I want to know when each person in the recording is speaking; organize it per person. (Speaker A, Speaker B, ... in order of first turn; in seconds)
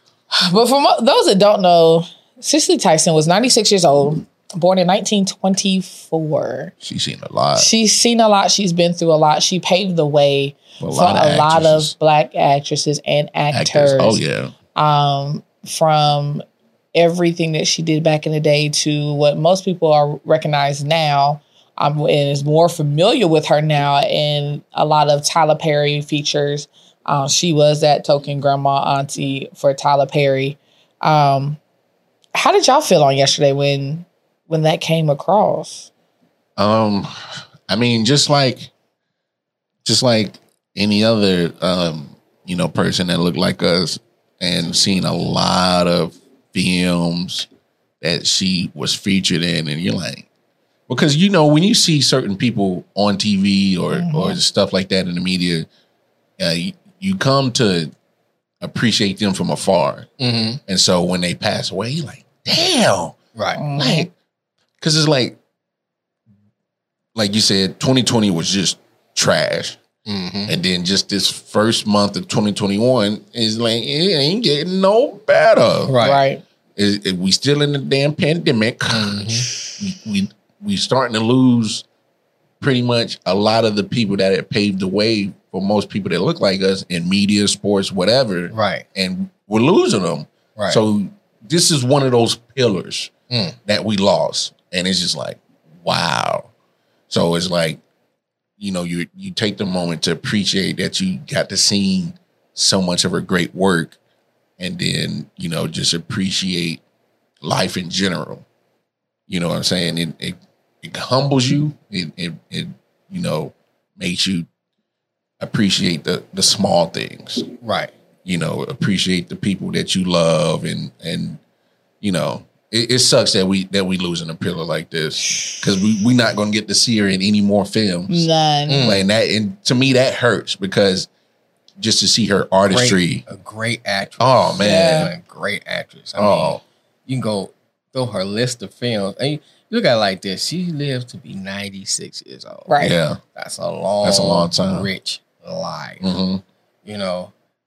Speaker A: 0.3-6.7, 7.5-14.2, 14.7-31.6, 32.3-35.9, 53.9-54.4, 63.5-64.1, 76.0-76.4, 128.1-128.9, 134.6-135.1, 142.7-143.0
Speaker B: 6.8-7.7, 10.8-11.9, 13.5-14.5, 36.6-38.7, 39.8-47.5, 48.0-50.3, 50.9-55.7, 56.4-57.9, 58.6-60.1, 60.7-63.2, 63.7-64.1, 64.8-65.4, 67.1-69.8, 70.5-76.0, 76.8-81.8, 82.6-93.1, 93.6-96.5, 97.1-97.8, 98.6-104.0, 104.6-106.8, 107.4-108.4, 109.3-114.5, 115.4-117.5, 118.2-121.4, 122.0-128.3, 128.8-131.1, 131.8-133.2, 134.2-135.1, 136.2-136.6, 142.8-143.2, 144.0-144.9, 146.0-146.4
Speaker C: 60.2-60.6, 63.4-63.6, 70.0-70.5, 75.9-76.2, 78.9-79.5, 88.5-88.8, 90.5-90.8, 93.3-93.5, 117.6-117.9, 128.7-129.0, 132.7-142.7, 143.3-146.1, 146.8-147.3